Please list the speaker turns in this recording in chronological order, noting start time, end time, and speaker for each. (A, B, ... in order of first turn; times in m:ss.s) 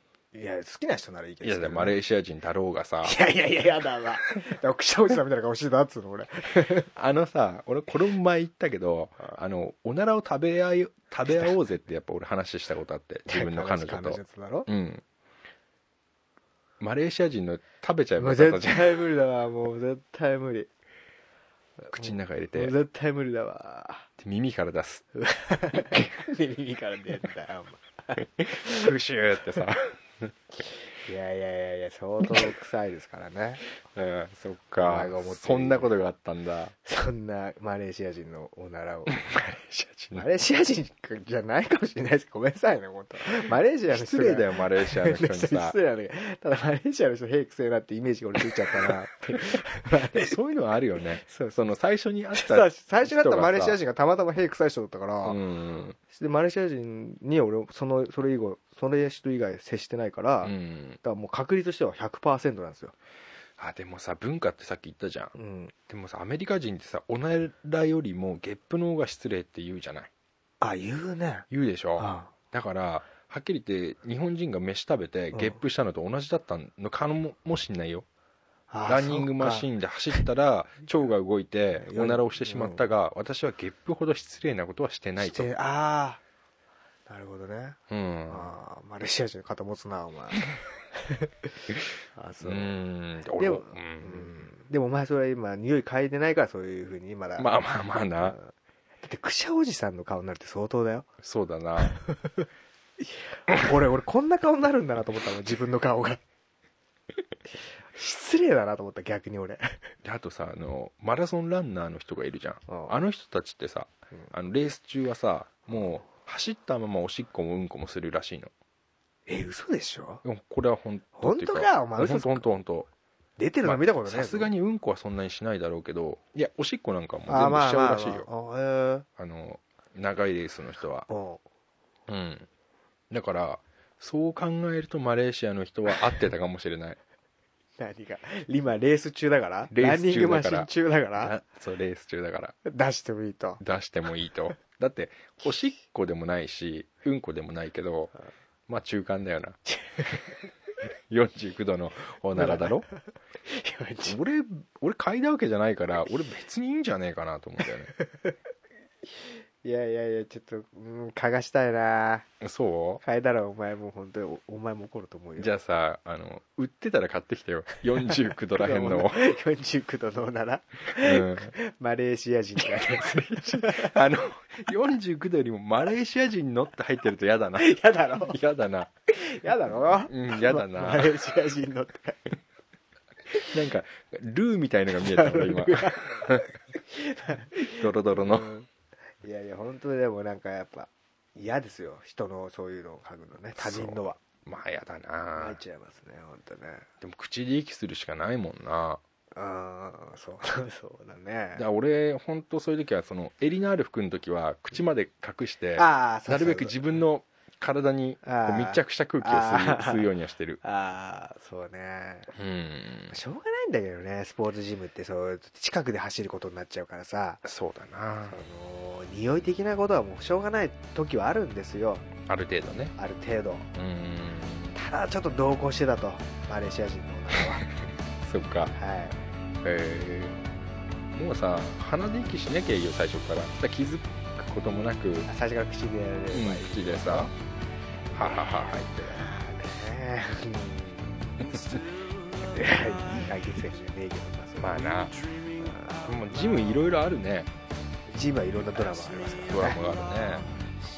0:00.3-0:01.9 A
0:01.4-0:03.2 B
0:03.0-0:06.9 A
0:07.0-0:15.0 B
0:13.3-0:14.7 A
0:16.8-0:19.0 B
0:18.2-0:20.7 A
0:21.8-0:24.1 A
0:21.9-0:22.7 B
0:24.2-0:25.1 B
0:25.2-0:28.2 A
0:28.2-0:30.3 B
0:31.1-0:33.6 A
0:32.2-0:32.5 B
0:33.8-0:36.8 B
0:34.8-0:35.9 A
0:36.8-0:39.2 A
0:39.1-0:40.2 B
0:40.2-0:50.3 A
0:43.9-0:45.8 B
0:50.1-0:53.8 B
0:51.2-0:51.7 A
0:52.4-0:55.4 A
0:55.2-0:56.0 B
0:56.1-1:02.9 A
1:00.4-1:01.0 B
1:03.6-1:05.3 B
1:05.4-1:05.7 A
1:05.9-1:10.1 B
1:10.6-1:11.5 A
1:11.5-1:18.1 B
1:12.0-1:12.3 A
1:15.3-1:15.6 A
1:18.7-1:20.2 A
1:18.9-1:25.5 B
1:21.8-1:22.8 A
1:25.2-1:26.2 A
1:27.1-1:30.4 A
1:27.9-1:28.5 B
1:32.2-1:32.7 A
1:32.4-1:34.4 B
1:33.4-1:37.5 A
1:37.4-1:38.4 B
1:38.2-1:38.5 A
1:39.0-1:41.1 A
1:41.2-1:42.0 B
1:43.5-1:46.2 A
1:48.0-1:49.8 A
1:50.0-1:58.5 B
1:52.7-1:53.0 A
1:59.3-2:00.2 A
2:00.2-2:02.9 B
2:01.2-2:02.6 A
2:03.4-2:04.5 A
2:03.6-2:08.3 B
2:07.3-2:09.1 A
2:09.2-2:11.1 B
2:11.1-2:11.4 A
2:12.1-2:12.5 B
2:13.1-2:17.0 B
2:17.8-2:21.3 A
2:19.7-2:22.6 B
2:22.6-2:23.6 A
2:23.6-2:28.1 B
2:28.7-2:29.6 B
2:31.1-2:32.9 B
2:32.4-2:32.8 A
2:33.4-2:34.2 A
2:34.1-2:37.9 B
2:39.6-2:42.3 A
2:42.4-2:43.0 B
2:43.0-2:45.5 A
2:45.4-2:49.3 B
2:48.6-2:54.0 A
2:51.0-2:51.5 B
2:52.9-2:58.9 B
2:57.6-2:58.4 A
2:59.2-3:02.2 A
3:00.1-3:01.2 B
3:03.4-3:06.5 B
3:05.0-3:08.7 A
3:07.6-3:08.5 B
3:09.2-3:14.2 A
3:13.6-3:15.6 B
3:15.4-3:16.9 A
3:17.0-3:19.0 B
3:19.4-3:21.6 A
3:21.6-3:30.6 B
3:25.8-3:26.8 A
3:28.2-3:30.1 A
3:30.6-3:32.3 A
3:32.4-3:33.2 B
3:33.1-3:37.4 A
3:37.4-3:38.4 B
3:38.3-3:42.1 A
3:42.3-3:43.0 B
3:43.0-3:43.7 A
3:43.8-3:44.8 B
3:44.8-3:47.7 A
3:47.3-3:47.7 B
3:48.2-3:48.7 B
3:48.7-3:49.2 A
3:49.6-3:50.4 B
3:51.1-3:55.3 B
3:55.3-3:57.3 A
3:56.3-3:57.3 B
3:58.1-3:59.3 B
3:58.2-4:01.8 A
4:02.5-4:04.9 A
4:04.6-4:05.2 B
4:05.6-4:06.1 A
4:06.0-4:07.5 B
4:08.1-4:09.9 A
4:09.5-4:10.5 B